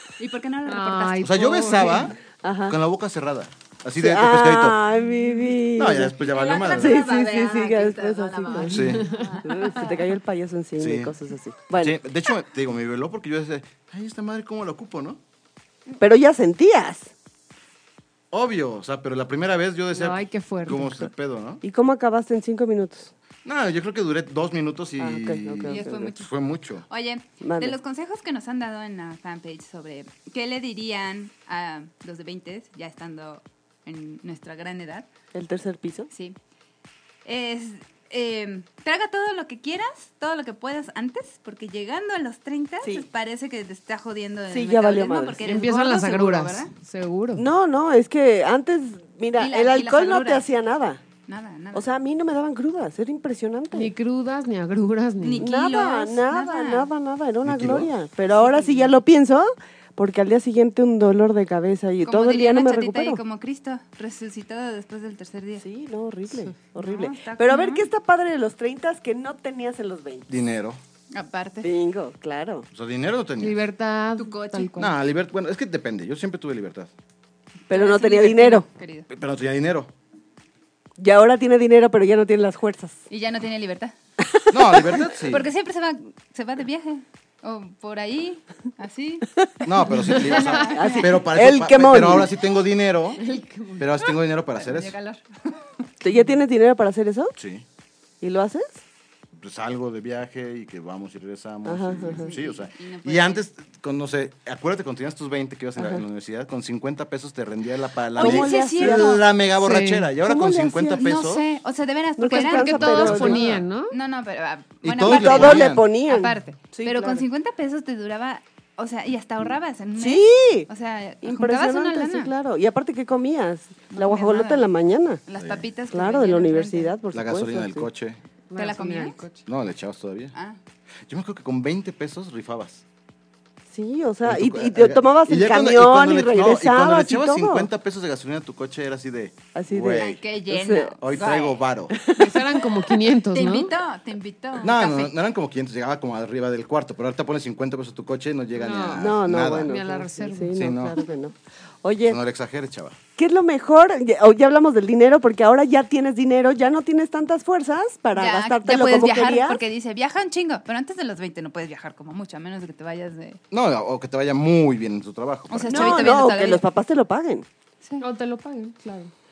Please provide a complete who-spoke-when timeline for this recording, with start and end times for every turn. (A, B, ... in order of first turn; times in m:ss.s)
0:00.2-0:02.1 A
0:00.7-0:02.1 B
0:01.2-0:02.2 C
0:02.3-0:02.8 D
0:02.7-0:04.8 C
0:04.0-0:08.9 D
0:05.8-0:07.0 C
0:06.2-0:09.9 A
0:08.7-0:09.1 C
0:08.8-0:09.8 B
0:09.4-0:12.0 D
0:10.8-0:11.1 C
0:11.8-0:15.2 C
0:16.0-0:17.1 D
0:18.3-0:21.6 C
0:19.9-0:21.1 B
0:21.6-0:23.1 D
0:23.4-0:26.9 C
0:25.0-0:26.1 D
0:25.7-0:26.3 A
0:26.9-0:35.1 A
0:27.4-0:27.8 D
0:35.3-0:36.1 D
0:36.1-0:36.4 A
0:37.2-0:46.7 A
0:44.5-0:45.4 D
0:45.5-0:47.4 B
0:47.4-0:51.0 D
0:49.4-0:50.4 A
0:51.3-0:51.9 A
0:51.7-0:53.9 D
0:53.7-0:55.5 B
0:55.2-0:56.9 A
0:55.4-1:03.2 D
0:57.4-0:57.9 C
0:58.3-0:58.9 A
1:02.0-1:05.7 A
1:05.6-1:10.3 D
1:06.7-1:07.9 A
1:10.3-1:10.8 C
1:11.1-1:11.7 A
1:11.6-1:12.7 D
1:12.7-1:13.6 C
1:13.4-1:14.9 B
1:14.2-1:14.8 A
1:14.8-1:16.9 C
1:17.7-1:18.7 D
1:17.7-1:19.1 A
1:19.1-1:19.9 C
1:21.0-1:23.0 D
1:23.1-1:23.9 A
1:24.2-1:25.1 D
1:24.5-1:25.5 C
1:25.3-1:29.4 A
1:29.6-1:33.2 C
1:30.0-1:31.2 A
1:30.6-1:32.3 D
1:33.2-1:33.9 B
1:33.8-1:35.0 C
1:34.1-1:35.8 A
1:36.0-1:37.3 D
1:37.4-1:37.6 C
1:38.2-1:38.8 D
1:39.4-1:51.5 C
1:41.6-1:42.4 D
1:41.9-1:43.5 A
1:45.8-1:46.0 D
1:48.2-1:49.2 D
1:48.2-1:49.3 A
1:49.6-1:50.1 B
1:50.2-1:51.0 D
1:51.0-2:02.3 A
1:52.2-1:53.5 D
1:52.3-1:54.0 B
1:53.3-1:53.6 C
1:54.8-1:55.9 C
1:55.0-1:57.2 D
2:00.0-2:00.7 D
2:01.2-2:05.2 D
2:03.9-2:04.7 A
2:05.3-2:07.0 A
2:05.4-2:05.6 C
2:05.9-2:07.9 D
2:07.1-2:08.2 C
2:08.5-2:09.5 B
2:08.6-2:09.2 A
2:09.4-2:10.3 C
2:11.1-2:12.8 C
2:13.7-2:17.7 D
2:14.2-2:20.3 C
2:19.5-2:20.9 D
2:20.0-2:21.6 A
2:21.0-2:22.0 C
2:21.9-2:22.8 D
2:22.2-2:23.7 B
2:23.3-2:25.2 A
2:24.6-2:29.7 C
2:28.6-2:30.8 B
2:29.0-2:32.2 D
2:30.6-2:31.0 C
2:32.1-2:33.0 C
2:33.2-2:39.6 D
2:38.2-2:43.4 A
2:43.5-2:46.2 C
2:45.5-2:46.6 A
2:45.7-2:47.5 D
2:48.0-2:49.1 B